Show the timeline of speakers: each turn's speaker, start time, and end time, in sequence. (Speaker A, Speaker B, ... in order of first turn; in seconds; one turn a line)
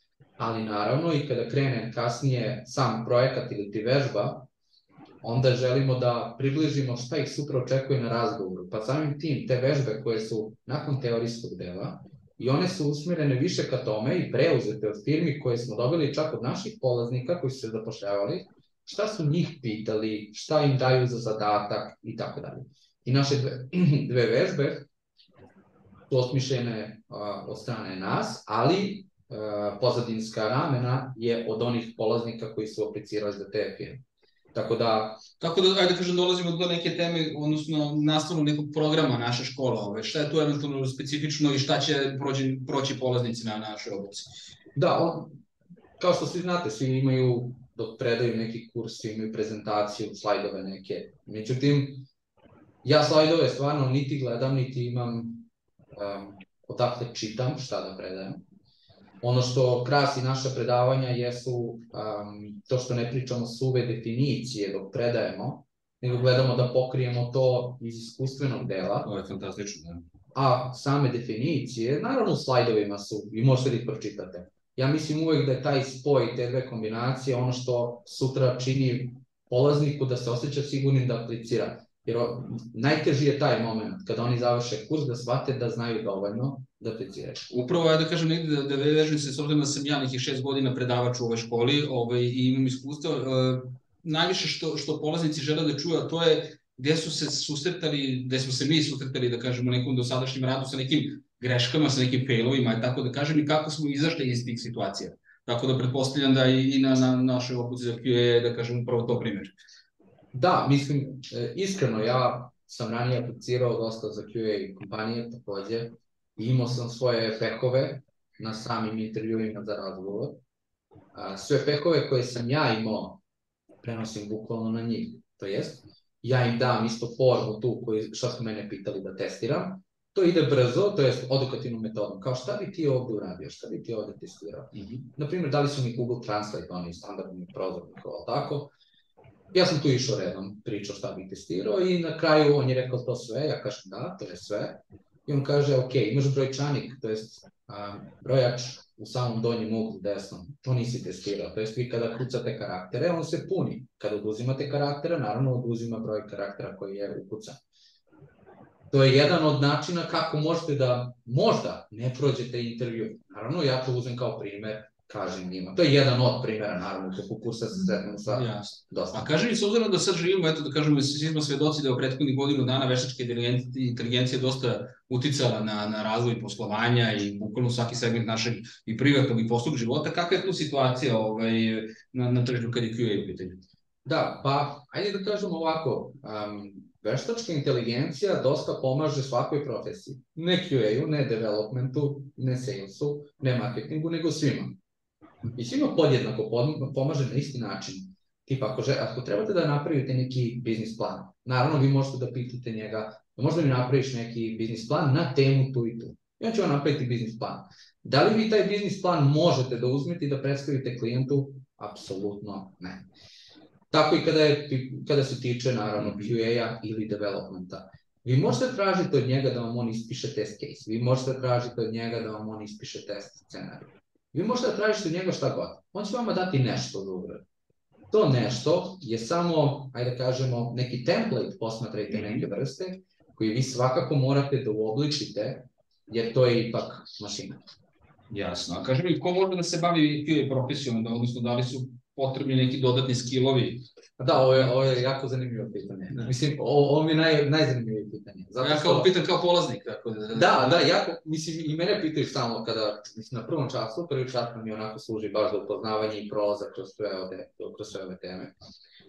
Speaker A: 0.4-4.5
Speaker A: 5.2-24.9
Speaker A: 26.1-34.0
Speaker A: 34.5-35.2
Speaker B: 35.4-44.3
Speaker A: 44.8-45.3
Speaker A: 46.0-52.0
Speaker A: 52.8-58.4
Speaker A: 59.2-69.1
Speaker B: 69.0-70.0
Speaker A: 70.3-87.5
Speaker B: 87.5-109.5
Speaker A: 110.3-120.4
Speaker A: 121.1-123.2
Speaker A: 123.8-138.7
Speaker B: 134.7-135.1
Speaker A: 139.5-157.6
Speaker A: 158.9-169.3
Speaker B: 168.3-183.6
Speaker A: 184.1-194.8
Speaker A: 195.5-213.1
Speaker A: 213.9-227.4
Speaker B: 216.0-216.3
Speaker A: 228.1-237.6
Speaker B: 238.3-243.8
Speaker A: 244.2-249.1
Speaker B: 248.6-250.8
Speaker A: 250.3-258.5